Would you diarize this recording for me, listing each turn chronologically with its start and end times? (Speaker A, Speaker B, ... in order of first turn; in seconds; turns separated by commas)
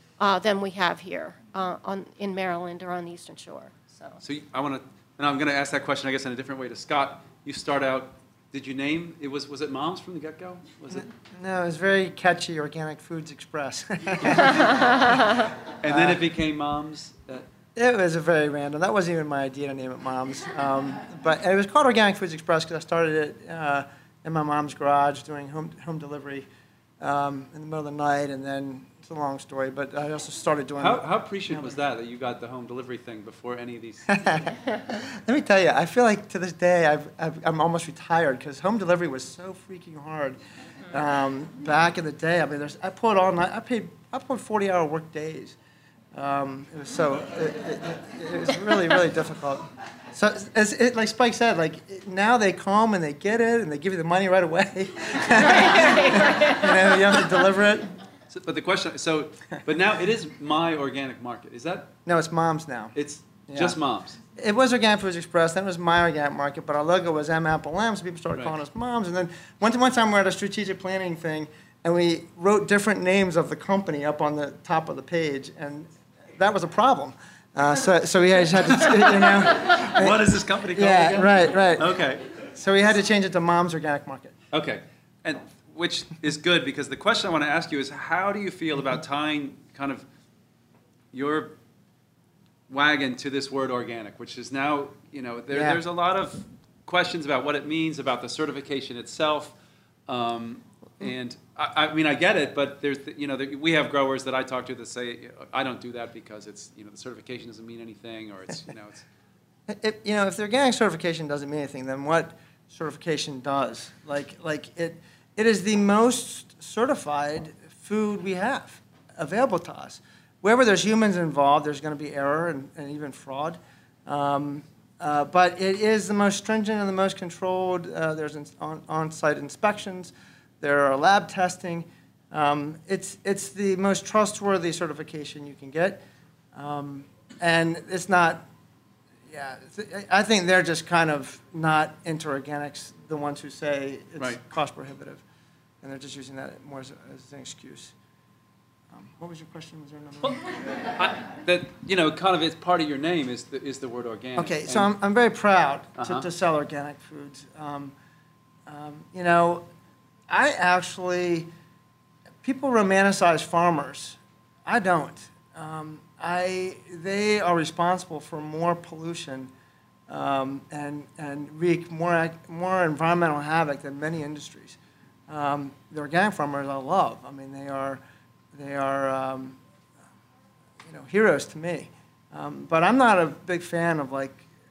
Speaker A: 0.2-4.2, Speaker B: 4.2-11.1, Speaker C: 10.9-15.1, Speaker B: 14.3-15.2, Speaker B: 15.8-17.5, Speaker C: 15.8-16.2, Speaker C: 17.8-26.5, Speaker C: 27.0-31.8, Speaker B: 30.8-34.4, Speaker C: 34.1-45.6, Speaker C: 46.1-57.9, Speaker A: 55.3-57.0, Speaker B: 58.3-61.9, Speaker C: 62.1-63.0, Speaker B: 63.0-64.2, Speaker C: 63.5-63.8, Speaker C: 64.3-84.3, Speaker B: 79.4-82.3, Speaker B: 84.5-90.0, Speaker B: 91.1-91.5, Speaker B: 92.7-99.5, Speaker C: 95.5-95.8, Speaker B: 100.1-109.0, Speaker C: 109.7-136.0, Speaker C: 136.5-138.5, Speaker C: 139.3-145.2, Speaker C: 145.8-147.9, Speaker C: 148.9-150.6, Speaker B: 150.2-154.9, Speaker C: 154.4-157.9, Speaker B: 156.0-156.3, Speaker C: 158.7-159.7, Speaker C: 160.3-161.5, Speaker C: 162.4-169.5, Speaker C: 170.1-178.0, Speaker C: 178.5-179.6, Speaker C: 180.8-184.5